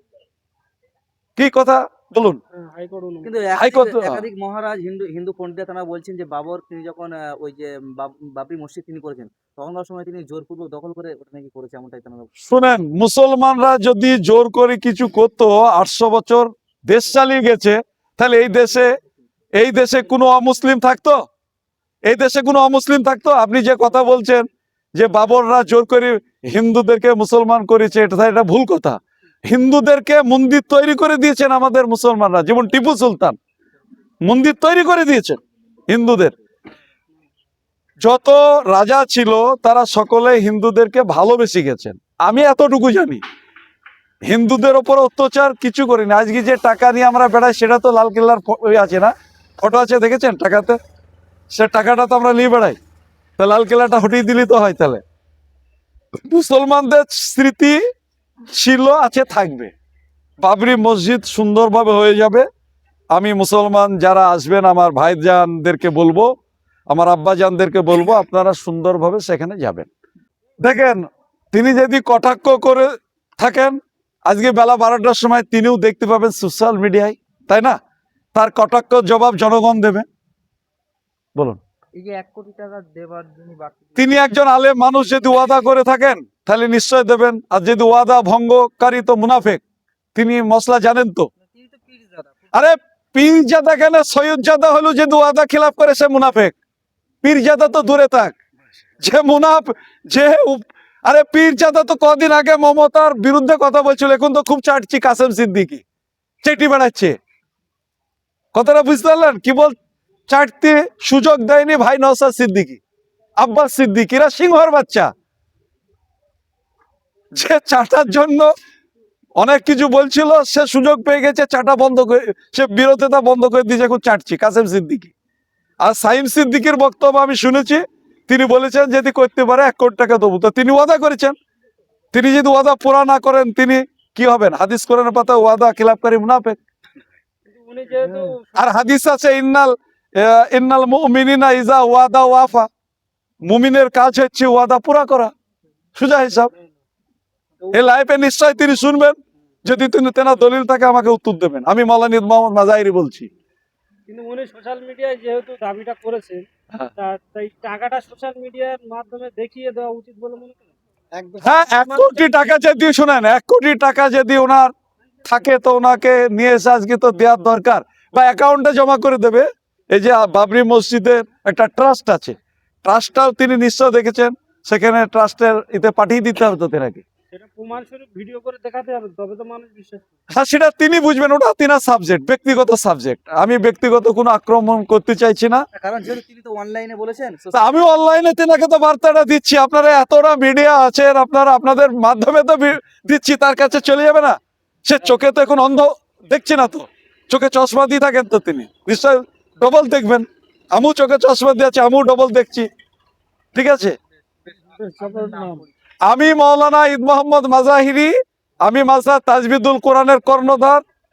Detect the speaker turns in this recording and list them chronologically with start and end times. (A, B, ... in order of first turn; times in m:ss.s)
0:01.4-0:02.4 A
0:02.5-0:03.5 B
0:03.2-0:12.3 C
0:03.6-0:04.2 A
0:12.4-0:18.9 A
0:19.6-0:21.2 A
0:22.1-0:33.4 A
0:34.2-0:36.4 A
0:38.0-0:43.2 A
0:44.3-0:50.8 A
0:51.5-0:52.8 A
0:53.4-0:55.0 A
0:56.3-0:57.8 A
0:58.5-0:59.7 A
1:00.4-1:02.5 A
1:03.1-1:06.3 A
1:06.9-1:09.9 A
1:10.6-1:17.8 A
1:18.4-1:20.1 A
1:22.0-1:24.1 C
1:24.0-1:29.6 A
1:30.2-1:31.3 A
1:31.4-1:32.4 C
1:32.5-1:36.6 A
1:37.2-1:38.4 A
1:39.0-1:45.8 A
1:46.4-1:47.2 A
1:48.5-1:49.8 A
1:50.3-1:52.8 A
1:53.4-1:55.1 A
1:57.3-1:58.5 A
1:59.4-2:05.1 A
2:05.8-2:11.4 A
2:12.1-2:16.6 A
2:17.5-2:18.7 B
2:18.6-2:22.7 A
2:23.5-2:25.3 A
2:26.0-2:26.5 A
2:27.7-2:33.3 A
2:34.1-2:36.5 B
2:37.0-2:40.6 B
2:41.4-2:44.7 A
2:45.2-2:57.0 A
2:57.3-3:00.1 B
3:00.3-3:05.6 A
3:05.8-3:07.7 C
3:07.5-3:22.7 A
3:23.5-3:24.0 A
3:24.5-3:25.7 C
3:24.8-3:25.6 B
3:26.1-3:30.8 A